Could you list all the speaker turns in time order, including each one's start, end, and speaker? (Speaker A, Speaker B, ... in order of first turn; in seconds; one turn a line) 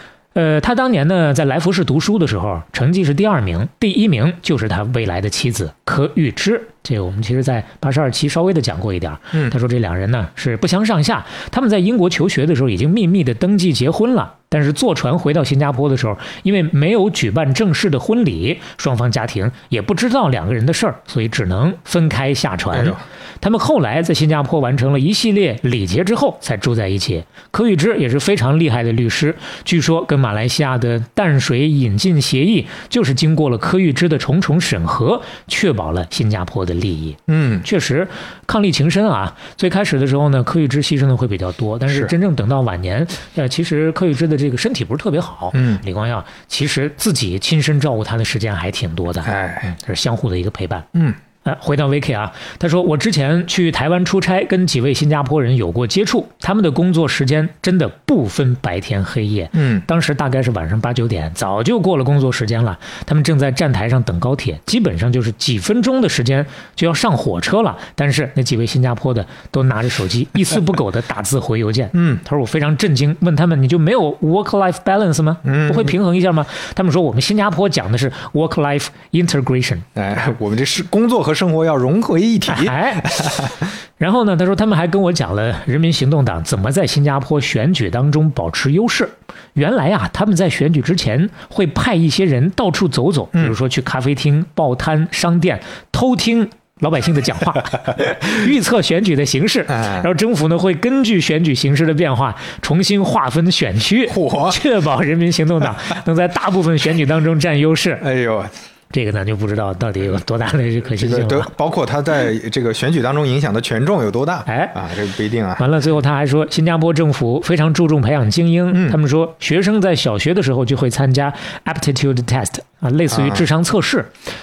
Speaker A: 0.3-50.9
Speaker B: 22.7-23.0
Speaker B: 37.3-37.7
Speaker B: 41.9-42.1
Speaker B: 45.5-45.8
Speaker B: 49.2-49.8
Speaker A: 51.4-79.9
Speaker B: 59.5-59.9
Speaker B: 71.9-72.2
Speaker B: 75.4-75.9
Speaker B: 80.0-83.6
Speaker A: 82.5-83.1
Speaker A: 84.0-108.0
Speaker B: 99.7-100.1
Speaker B: 104.0-104.6
Speaker B: 108.0-108.5
Speaker A: 108.9-111.5
Speaker B: 110.9-115.6
Speaker A: 114.5-114.7
Speaker A: 115.6-124.1
Speaker B: 118.7-119.0
Speaker B: 123.1-123.5